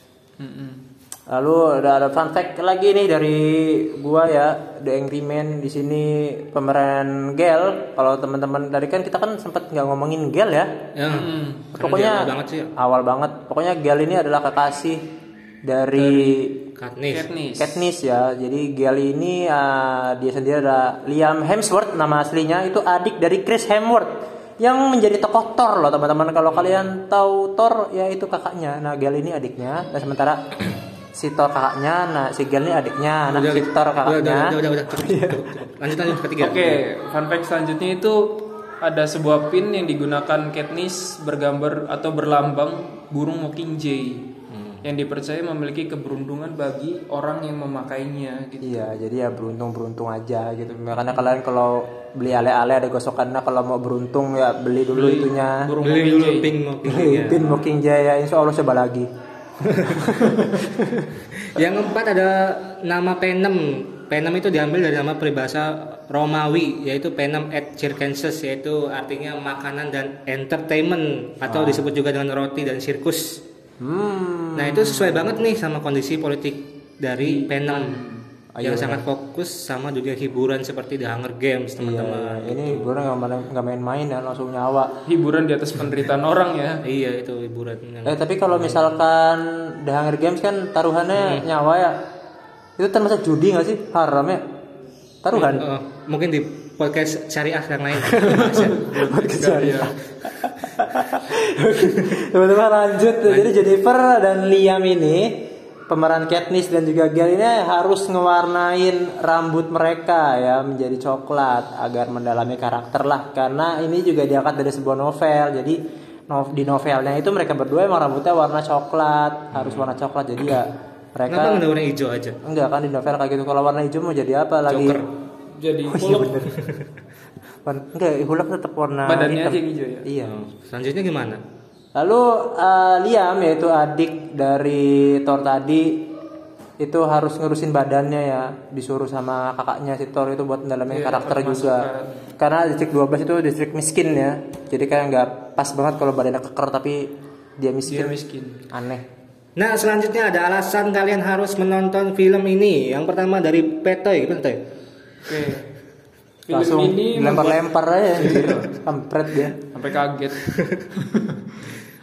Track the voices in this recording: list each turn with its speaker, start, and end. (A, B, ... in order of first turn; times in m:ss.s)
0:00.4-0:00.8 A
0:01.3-0:10.8 B
0:11.0-0:12.7 C
0:11.1-0:11.6 A
0:11.7-0:15.0 B
0:15.6-0:16.6 B
0:16.0-0:16.2 A
0:16.8-0:17.3 C
0:17.1-0:17.8 A
0:17.6-0:35.5 B
0:33.3-0:36.8 C
0:36.4-0:44.3 A
0:44.5-0:44.8 C
0:44.8-0:48.8 A
0:48.6-0:55.7 B
0:54.9-0:56.5 A
0:55.8-0:57.5 C
0:56.8-0:59.1 B
0:59.6-1:00.2 C
0:59.9-1:01.1 B
1:00.2-1:00.6 A
1:01.4-1:13.4 C
1:11.4-1:11.9 B
1:13.8-1:15.3 B
1:14.5-1:18.0 C
1:17.2-1:18.2 A
1:18.5-1:19.0 B
1:18.6-1:22.9 C
1:21.8-1:24.9 B
1:25.0-1:26.8 A
1:26.8-1:28.8 C
1:28.0-1:32.0 B
1:31.2-1:31.4 C
1:32.8-1:34.4 B
1:35.2-1:35.7 B
1:35.3-1:39.0 C
1:38.1-2:01.6 B
1:38.2-1:40.0 A
1:43.3-1:43.6 C
1:59.5-1:59.9 C
2:01.3-2:02.4 C
2:02.4-2:05.0 B
2:04.7-2:05.0 C
2:05.5-2:06.4 A
2:05.9-2:06.7 B
2:07.6-2:10.4 B
2:09.0-2:10.1 A
2:10.2-2:11.4 C
2:11.9-2:16.1 B
2:16.8-2:28.2 B
2:20.9-2:22.3 A
2:27.8-2:28.6 A
2:28.7-2:29.0 B
2:29.6-2:34.6 C
2:35.2-2:35.7 A
2:36.5-2:38.7 A
2:36.5-2:39.6 B
2:39.7-2:41.8 A
2:40.5-2:40.8 C